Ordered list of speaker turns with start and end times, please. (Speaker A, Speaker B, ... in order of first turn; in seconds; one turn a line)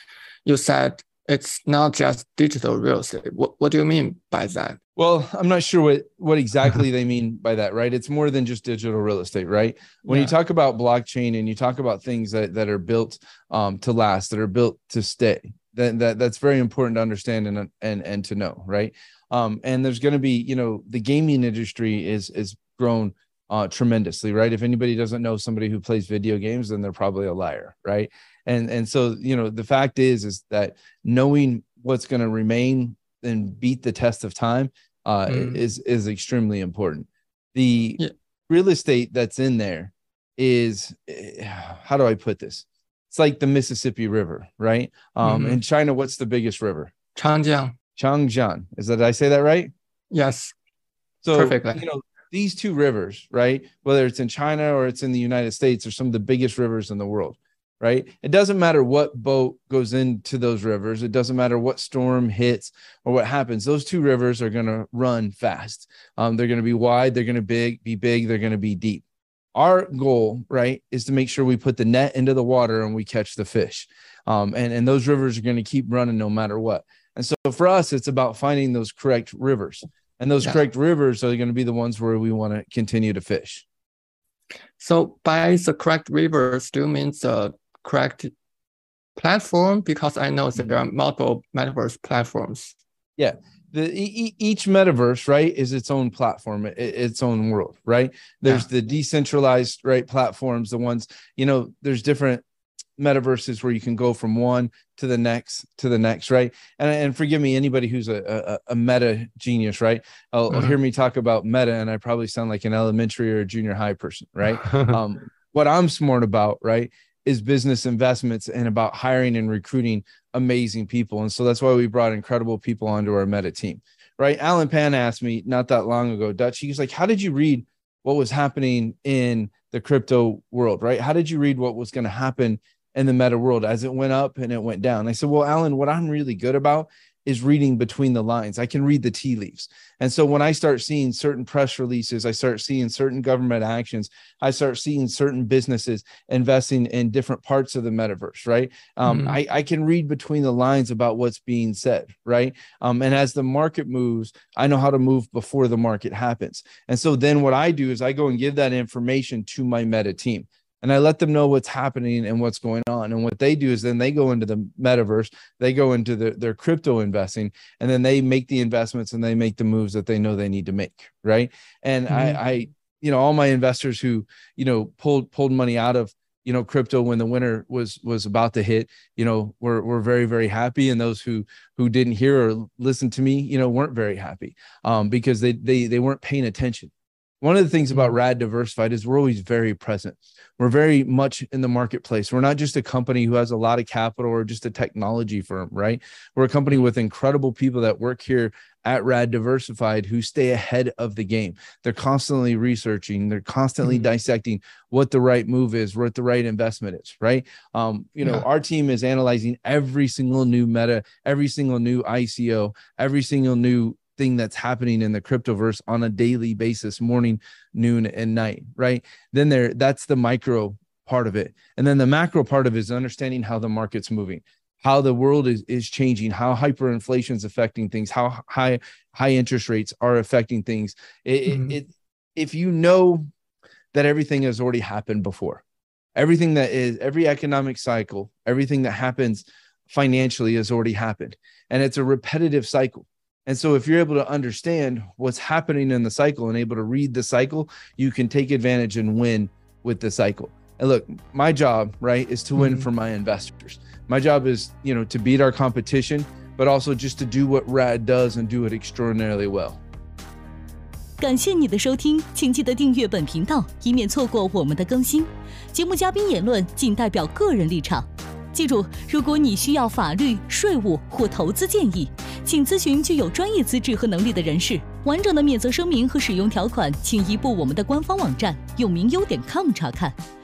Speaker A: 0.4-4.8
Speaker B: 5.0-46.9
Speaker A: 10.0-10.3
Speaker A: 35.3-35.6
Speaker A: 45.2-45.6
Speaker A: 47.1-47.7
Speaker B: 48.0-49.7
Speaker A: 50.1-50.5
Speaker B: 51.2-83.6
Speaker A: 51.3-51.9
Speaker A: 84.8-88.3
Speaker A: 89.2-92.8
Speaker B: 93.2-102.4
Speaker B: 103.0-233.3
Speaker A: 110.5-110.8
Speaker A: 149.0-149.4
Speaker A: 172.1-172.4
Speaker A: 231.5-231.7
Speaker B: 233.9-235.6
Speaker B: 236.2-259.8
Speaker A: 252.6-252.8
Speaker C: 261.2-280.2